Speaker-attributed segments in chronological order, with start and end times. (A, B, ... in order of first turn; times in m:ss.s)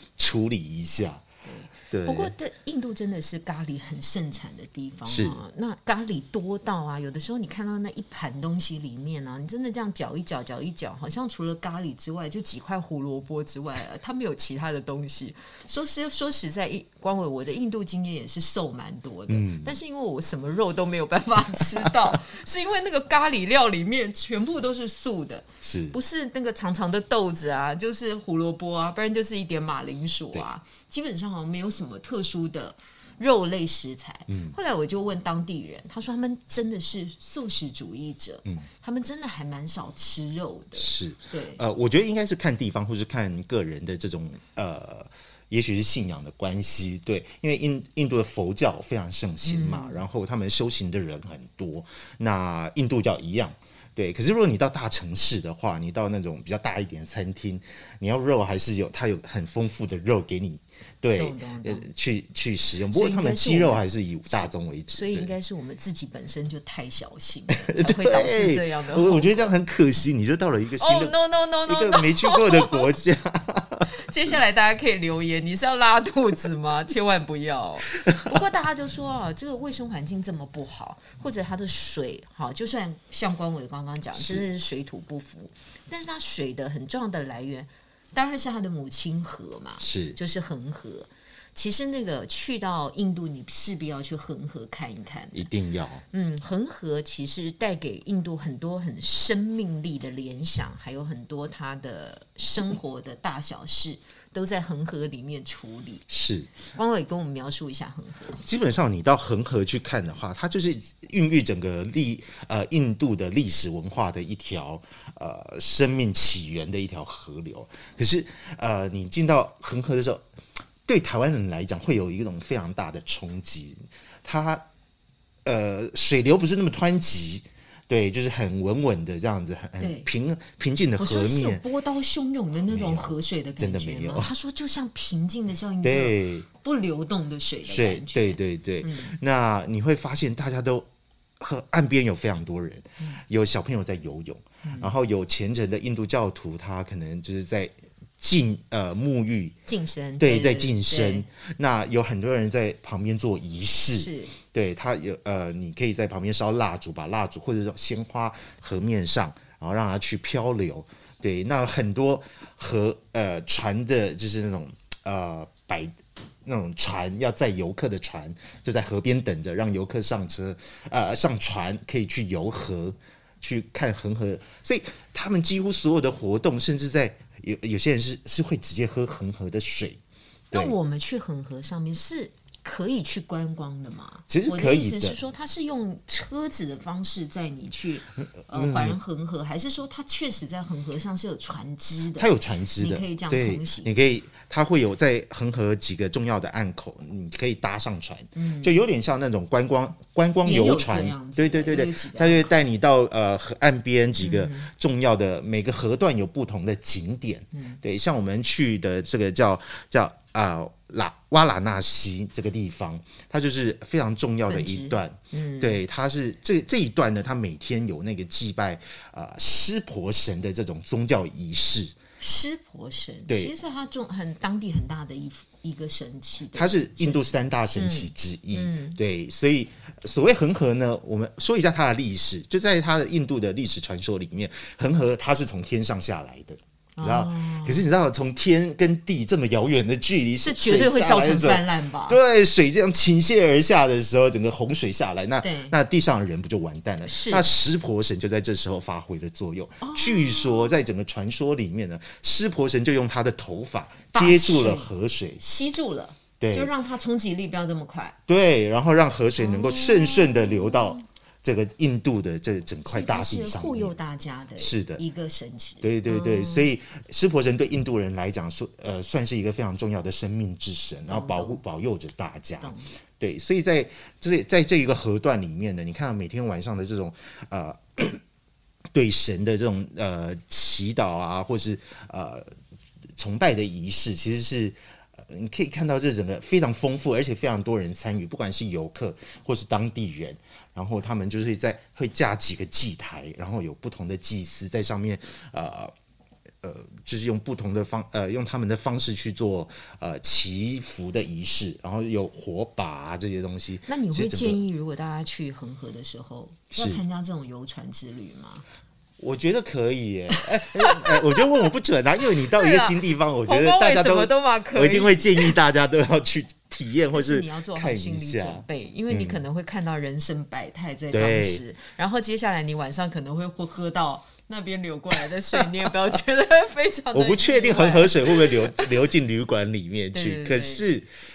0:00.2-0:01.2 A
0:01.5-0:41.6 B
0:01.9-0:02.3 A
0:05.1-0:05.4 A
0:19.3-0:19.8 A
0:25.6-0:26.0 A
0:34.3-0:34.6 A
0:40.8-1:05.3 A
0:49.4-0:50.0 B
1:01.2-1:01.9 B
1:02.9-1:09.5 B
1:07.6-1:11.2 A
1:10.8-1:12.9 B
1:11.7-1:13.9 A
1:14.0-1:35.5 B
1:24.2-1:24.4 A
1:29.8-1:30.2 A
1:35.3-1:36.0 A
1:36.1-1:46.0 B
1:46.1-1:46.5 A
1:46.7-1:48.4 B
1:48.4-2:00.2 A
2:00.9-2:04.6 A
2:05.4-2:11.6 A
2:09.8-2:10.1 B
2:11.0-2:19.2 B
2:12.7-2:14.3 A
2:15.8-2:16.5 A
2:17.7-2:20.9 A
2:21.4-2:29.5 A
2:24.6-2:24.9 B
2:29.7-2:31.3 B
2:30.2-2:45.9 A
2:33.9-2:34.3 B
2:46.5-3:00.0 A
3:00.5-3:13.9 B
3:04.3-3:05.2 A
3:08.5-3:09.0 A
3:12.2-3:42.0 A
3:18.4-3:18.8 B
3:20.4-3:22.6 B
3:24.2-3:24.7 B
3:27.5-3:27.8 B
3:34.5-3:35.8 B
3:42.2-3:49.0 B
3:43.3-3:43.5 A
3:46.5-4:15.4 A
3:57.0-3:57.9 B
4:00.4-4:02.2 B
4:05.4-4:05.8 B
4:07.0-4:07.5 B
4:09.8-4:10.8 B
4:14.1-4:18.2 B
4:16.4-4:16.7 A
4:18.3-4:24.0 A
4:19.4-4:21.0 B
4:22.9-4:26.7 B
4:24.6-4:25.0 A
4:25.8-4:38.2 A
4:31.1-4:31.6 B
4:32.6-4:32.9 B
4:38.9-4:42.5 A
4:43.2-4:55.9 A
4:56.6-5:04.6 A
5:03.9-5:08.6 B
5:06.8-5:07.0 A
5:09.2-5:19.4 A
5:10.7-5:11.6 B
5:12.4-5:15.6 B
5:17.1-5:28.9 B
5:21.1-5:21.6 A
5:27.1-5:31.1 A
5:30.1-5:30.9 B